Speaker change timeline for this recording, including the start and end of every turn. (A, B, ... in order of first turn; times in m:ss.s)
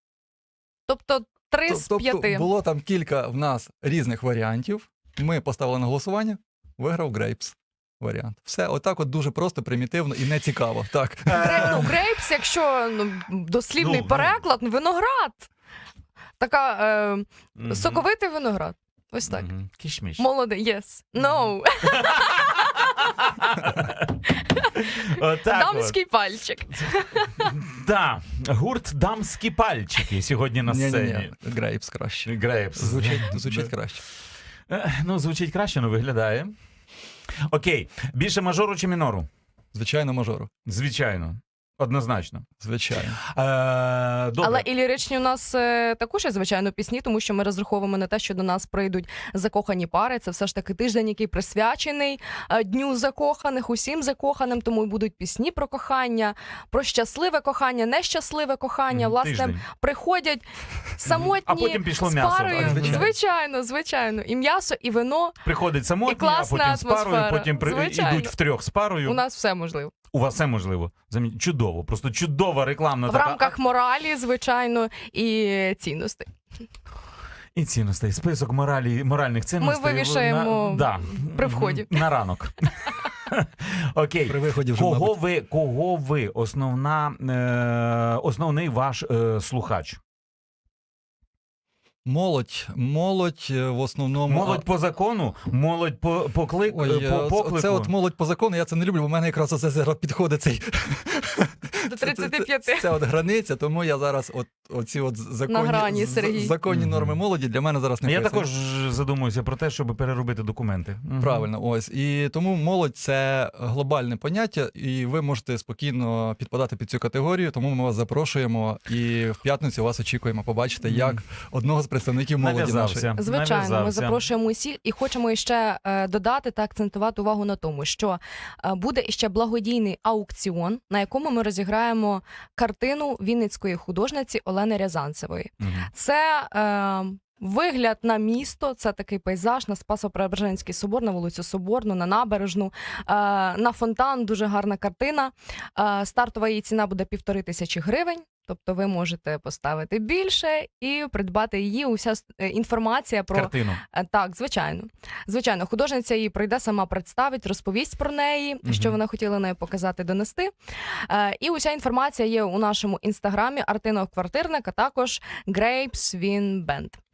0:00.9-0:02.5 A
0:01.7-0:11.8 B
0:11.3-0:11.9 C
0:11.4-0:15.5 A
0:13.8-0:14.4 C
0:16.4-0:19.5 A
0:17.6-0:18.0 C
0:19.3-0:20.2 C
0:20.2-0:23.1 A
0:22.1-0:24.2 C
0:24.3-0:27.4 A
0:24.9-0:26.0 C
0:27.4-0:31.3 C
0:30.7-0:34.0 B
0:32.3-0:33.6 C
0:34.7-0:36.5 C
0:37.5-0:39.3 C
0:39.7-0:40.5 B
0:40.7-0:42.5 C
0:42.6-0:43.2 B
0:43.3-0:44.6 C
0:44.4-1:05.4 A
0:58.9-0:59.6 C
1:01.1-1:03.1 C
1:02.6-1:03.1 B
1:05.4-1:09.2 C
1:06.0-1:08.3 A
1:09.0-1:09.9 A
1:10.1-1:13.5 C
1:13.1-1:16.3 A
1:17.6-1:30.0 C
1:19.6-1:22.0 A
1:24.3-1:25.2 B
1:32.0-1:34.6 B
1:34.3-1:37.9 C
1:36.7-1:48.5 B
1:41.9-1:42.9 A
1:45.5-1:46.6 A
1:46.7-1:47.2 C
1:48.0-1:51.5 C
1:51.2-2:03.1 B
2:00.8-2:01.2 C
2:02.4-2:04.2 C
2:03.2-2:40.5 A
2:15.6-2:15.9 C
2:33.3-2:33.8 C
2:38.6-2:39.0 C
2:41.1-2:47.0 A